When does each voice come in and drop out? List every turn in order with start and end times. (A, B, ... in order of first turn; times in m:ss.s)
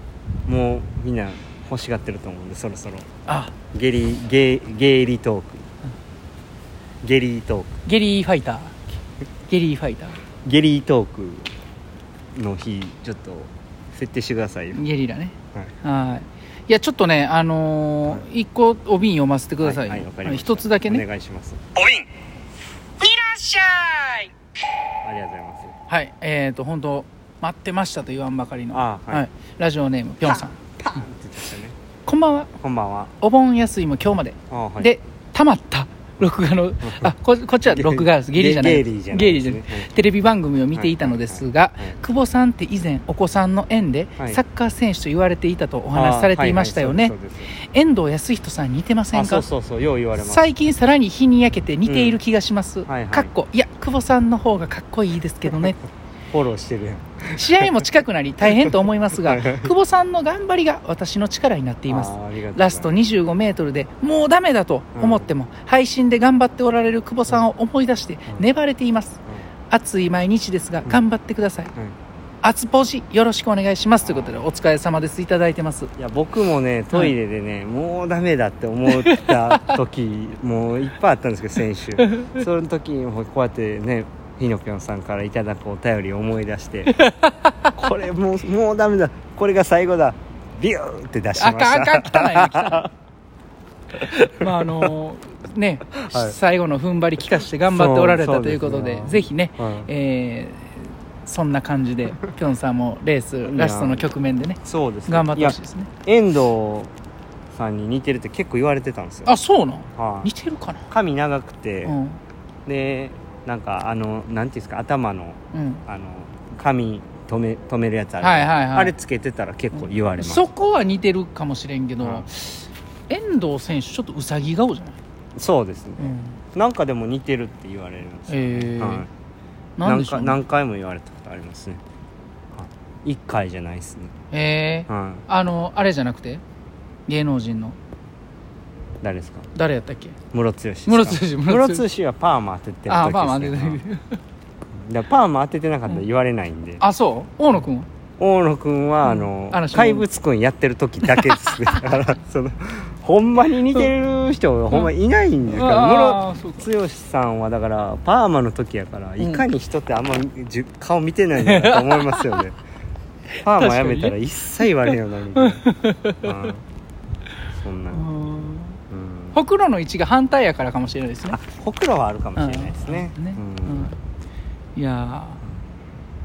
0:00.5-0:03.1 A
0:03.3-0:03.5 B
0:03.7-0:05.6 A
0:07.0-0:07.8 A
0:07.8-0:08.7 B
0:09.5-0:10.2 B
0:10.4-0:11.5 A
0:12.4-0:14.8 A
0:14.7-0:21.0 B
0:19.6-0:22.0 A
0:23.0-0:24.3 B
0:25.0-0:25.8 A
0:25.9-0:30.6 B
0:28.7-0:29.2 A
0:30.8-0:31.8 A
0:32.1-0:32.5 B
0:32.5-0:33.1 A
0:33.2-0:49.5 B
0:34.5-0:34.9 A
0:37.7-0:39.9 A
0:40.8-0:42.0 A
0:45.9-0:47.5 A
0:49.1-0:50.4 A
0:50.2-0:55.8 B
0:51.9-0:52.2 A
0:52.9-0:53.3 A
0:56.3-0:57.7 A
0:57.4-1:11.7 B
0:59.3-0:59.7 A
1:01.9-1:03.0 A
1:05.0-1:05.3 A
1:12.4-1:15.9 B
1:14.0-1:14.4 A
1:16.0-1:27.1 A
1:18.9-1:19.6 B
1:22.0-1:22.4 B
1:26.9-1:27.3 B
1:27.8-1:32.9 A
1:31.4-1:32.9 B
1:34.3-1:45.9 B
1:36.1-1:36.3 A
1:37.7-1:39.9 A
1:43.4-1:44.1 A
1:44.6-1:46.9 A
1:47.5-1:49.4 A
1:49.3-1:50.9 B
1:50.0-1:50.3 A
1:50.9-1:52.0 A
1:51.8-1:52.2 B
1:52.7-2:00.5 A
1:55.5-1:55.8 B
1:58.2-1:58.9 B
2:00.2-2:05.0 B
2:05.4-2:09.1 A
2:06.0-2:06.4 B
2:08.3-2:09.1 B
2:09.8-2:10.4 B
2:09.8-2:11.8 A
2:12.6-2:14.1 A
2:14.3-2:16.4 B
2:14.9-2:15.2 A
2:17.1-2:17.8 B
2:19.0-2:19.5 A
2:19.6-2:20.2 B
2:20.3-2:23.8 A
2:20.9-2:21.8 B
2:22.9-2:24.2 B
2:24.9-2:26.8 A
2:26.8-2:27.9 B
2:28.2-2:42.6 A
2:29.0-2:30.1 B
2:31.0-2:32.0 B
2:35.5-2:36.7 B
2:39.2-2:39.5 B
2:41.4-2:42.3 B
2:43.4-2:45.6 A
2:43.5-2:44.2 B
2:44.8-2:46.3 B
2:46.2-2:46.6 A
2:47.5-2:48.1 A
2:47.9-2:48.8 B
2:48.9-2:49.4 A
2:49.3-2:51.4 B
2:51.3-2:53.9 A
2:52.4-2:54.0 B
2:54.8-2:55.4 B